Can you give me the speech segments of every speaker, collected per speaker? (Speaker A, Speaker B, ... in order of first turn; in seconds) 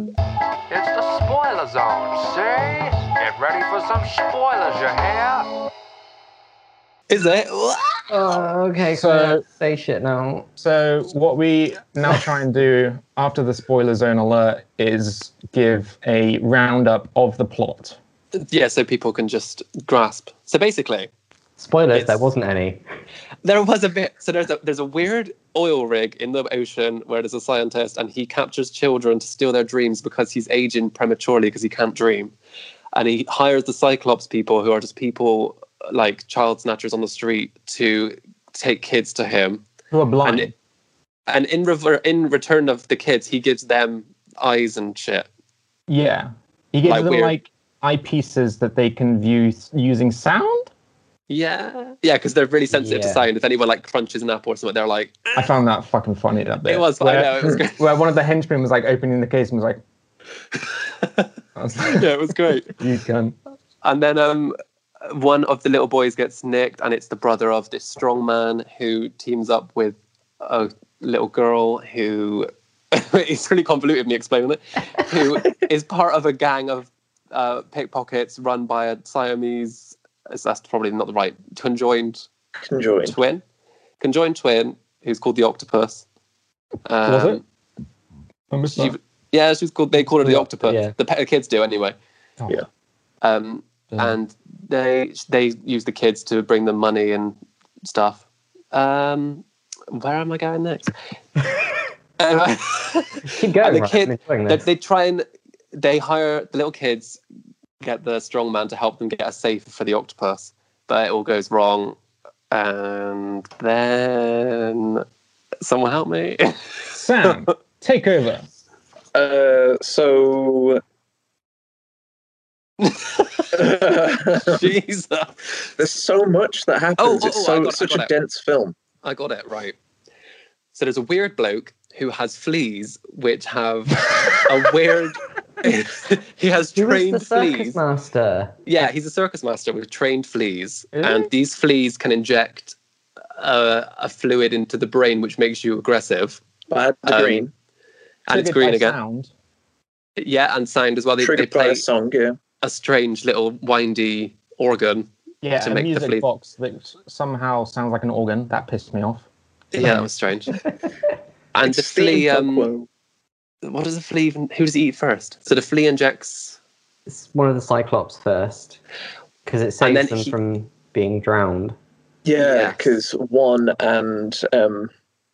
Speaker A: 0.7-5.5
Speaker B: 7.1-8.1, 18.3-21.1, 21.9-22.2, 23.4-32.3, 32.9-39.6, 40.2-40.5, 41.3-45.2, 46.8-47.4, 51.3-55.5, 56.6-57.9, 61.0-61.3, 61.8-62.7, 63.8-82.2, 83.0-83.4, 84.0-86.0, 86.8-87.4, 88.8-91.9, 93.2-101.5, 102.2-105.2, 105.7-107.2, 107.8-112.0, 112.5-115.0, 115.6-116.5, 122.8-123.6, 124.3-125.7, 127.0-128.1, 129.0-129.7, 130.7-137.8, 138.7-142.8, 143.4-146.4, 147.1-147.4, 148.3-148.9, 150.2-151.8, 152.6-155.1, 155.6-156.2, 159.7-160.6, 161.5-162.7, 163.6-166.6, 169.8-170.3, 172.4-172.9
Speaker C: 8.1-10.5, 21.6-22.8, 52.7-53.2, 90.2-90.9, 103.2-104.6, 136.8-138.6, 167.1-168.8, 169.4-171.8
Speaker D: 8.9-9.4, 10.6-18.0, 39.9-40.5, 45.9-50.7, 55.3-59.8, 61.5-62.1, 62.7-63.3, 87.0-87.4, 88.5-89.0, 116.9-118.5, 140.9-141.3, 148.3-149.3, 155.4-159.2, 159.8-160.1
Speaker E: 82.6-83.2, 119.1-120.8, 123.5-124.6, 125.8-128.8, 146.7-147.5, 151.2-152.4, 161.6-162.9, 172.2-174.9